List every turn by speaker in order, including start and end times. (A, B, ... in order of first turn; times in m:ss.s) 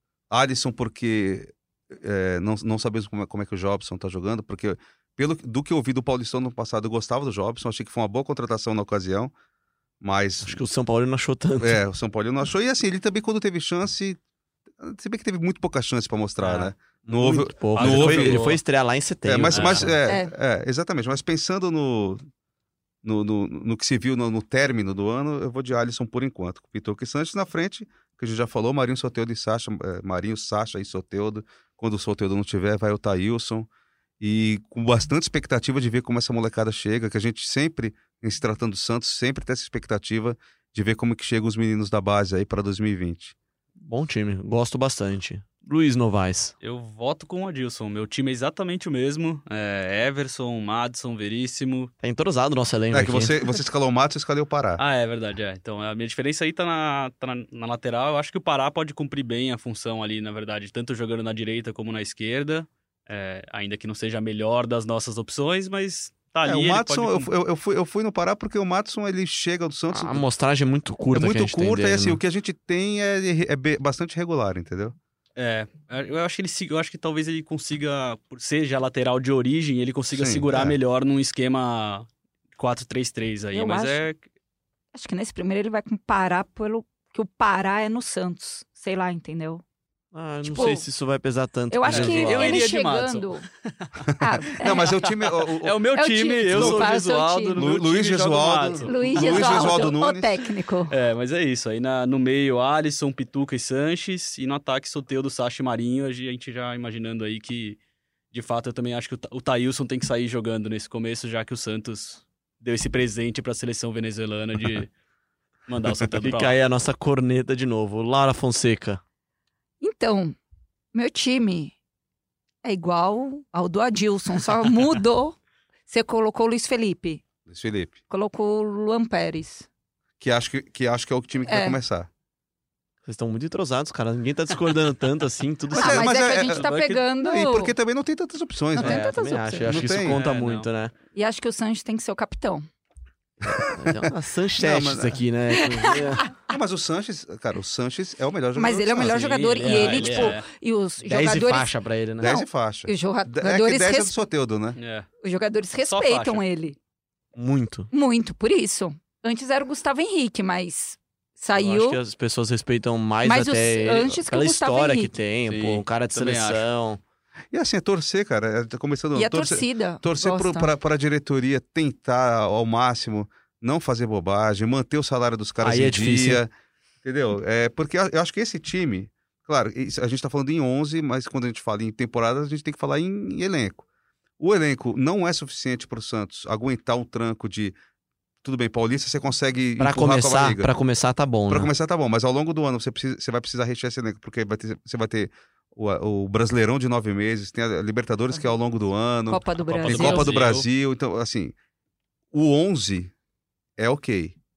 0:00.3-0:09.3 A
0:10.0-0:10.6 A
0:10.4-0:11.8 B
0:11.6-0:14.2 A
0:14.8-0:18.4 A
0:16.4-0:16.7 C
0:17.1-0:20.0 B
0:17.8-0:18.6 C
0:19.3-0:22.2 A
0:19.5-0:19.9 C
0:20.1-0:20.3 D
0:23.0-0:33.7 A
0:34.2-0:43.3 A
0:43.8-0:46.5 B
0:46.6-0:51.9 C
0:52.0-0:53.3 B
0:52.9-0:54.8 A
0:54.8-1:07.3 C
1:06.4-1:10.2 A
1:09.9-1:12.2 B
1:11.1-1:15.0 A
1:15.4-1:24.2 C
1:20.1-1:20.8 A
1:23.5-1:24.0 D
1:24.9-1:29.6 D
1:30.1-1:32.6 B
1:30.4-1:30.9 D
1:31.7-1:33.4 D
1:31.9-1:39.9 C
1:31.9-1:32.4 A
1:34.0-1:35.8 A
1:34.2-1:34.9 D
1:36.0-1:37.6 D
1:36.5-1:36.8 A
1:37.6-1:40.3 A
1:38.8-1:40.9 D
1:40.9-1:47.8 C
1:48.3-1:54.9 C
1:55.7-1:56.6 C
1:55.9-1:59.0 B
1:59.8-2:00.4 D
2:00.9-2:01.7 D
2:02.6-2:05.4 D
2:05.9-2:07.2 D
2:07.5-2:08.0 A
2:08.1-2:09.7 D
2:10.2-2:12.1 A
2:11.5-2:11.8 D
2:13.0-2:16.1 B
2:15.7-2:17.7 D
2:15.7-2:19.1 A
2:16.4-2:17.0 C
2:18.7-2:19.7 D
2:18.8-2:20.9 B
2:19.7-2:20.2 A
2:20.1-2:20.7 C
2:21.1-2:22.6 D
2:23.4-2:25.2 A
2:23.7-2:26.3 B
2:25.6-2:26.3 D
2:26.5-2:30.3 A
2:28.6-2:34.1 D
2:28.9-2:30.4 C
2:29.6-2:30.4 B
2:31.0-2:32.4 B
2:32.2-2:34.8 A
2:34.8-2:35.1 C
2:35.2-2:36.8 D
2:35.9-2:36.4 C
2:37.4-2:37.9 B
2:37.9-2:42.0 D
2:41.6-2:47.0 B
2:43.2-2:45.1 D
2:45.5-2:46.6 C
2:47.5-2:56.5 A
2:49.1-2:50.7 D
2:55.6-2:56.4 B
2:57.0-3:03.8 A
3:04.4-3:07.8 A
3:08.4-3:10.7 A
3:09.8-3:11.7 B
3:11.5-3:21.5 A
3:19.3-3:20.3 D
3:19.8-3:20.7 C
3:22.3-3:23.1 A
3:23.8-3:24.4 A